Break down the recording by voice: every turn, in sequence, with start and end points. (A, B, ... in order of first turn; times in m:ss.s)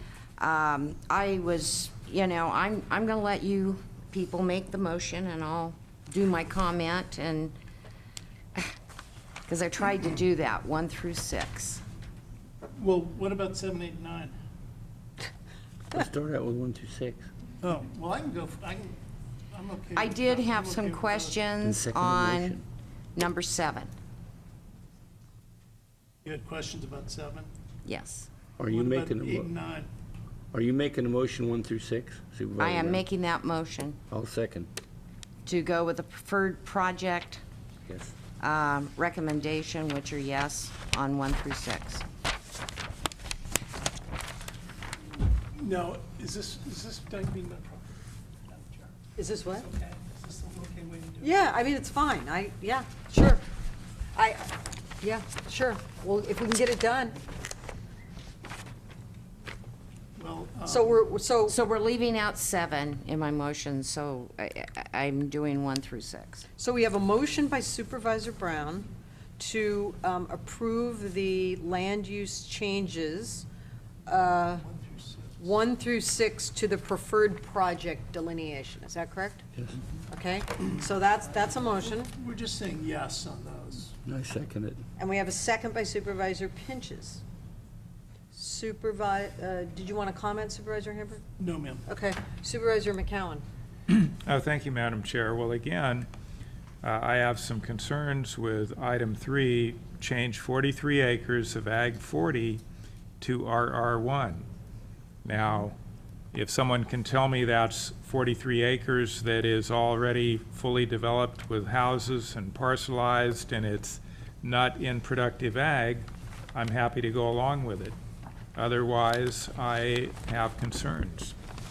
0:00.4-0:07.5 A
0:09.5-0:11.8 A
0:12.8-0:14.4 B
0:15.9-0:17.3 C
0:17.6-0:19.0 B
0:19.5-0:21.4 B
0:20.0-0:22.6 A
0:21.6-0:22.6 C
0:23.2-0:23.9 A
0:26.2-0:27.5 B
0:27.8-0:28.3 A
0:28.6-0:29.5 C
0:28.7-0:29.9 B
0:30.5-0:33.0 C
0:32.6-0:34.0 A
0:34.1-0:34.7 C
0:35.4-0:37.4 A
0:37.9-0:38.2 C
0:38.4-0:42.0 A
0:45.5-0:48.0 B
0:48.5-0:49.0 B
0:49.2-0:49.7 D
0:49.6-0:51.3 B
0:51.2-0:53.4 D
0:54.2-0:57.2 D
1:00.2-1:00.9 B
1:00.7-1:01.6 D
1:01.5-1:06.5 A
1:06.6-1:13.5 D
1:14.1-1:14.6 D
1:14.6-1:15.4 B
1:15.4-1:19.4 D
1:20.1-1:22.1 D
1:22.1-1:24.0 B
1:24.0-1:24.8 C
1:25.0-1:27.2 D
1:28.3-1:31.2 D
1:31.4-1:31.8 B
1:31.9-1:33.4 D
1:33.9-1:36.1 E
1:36.8-1:42.6 E
1:43.2-1:44.5 E
1:45.2-1:45.8 E
1:46.3-1:58.0 E
1:58.6-2:01.4 E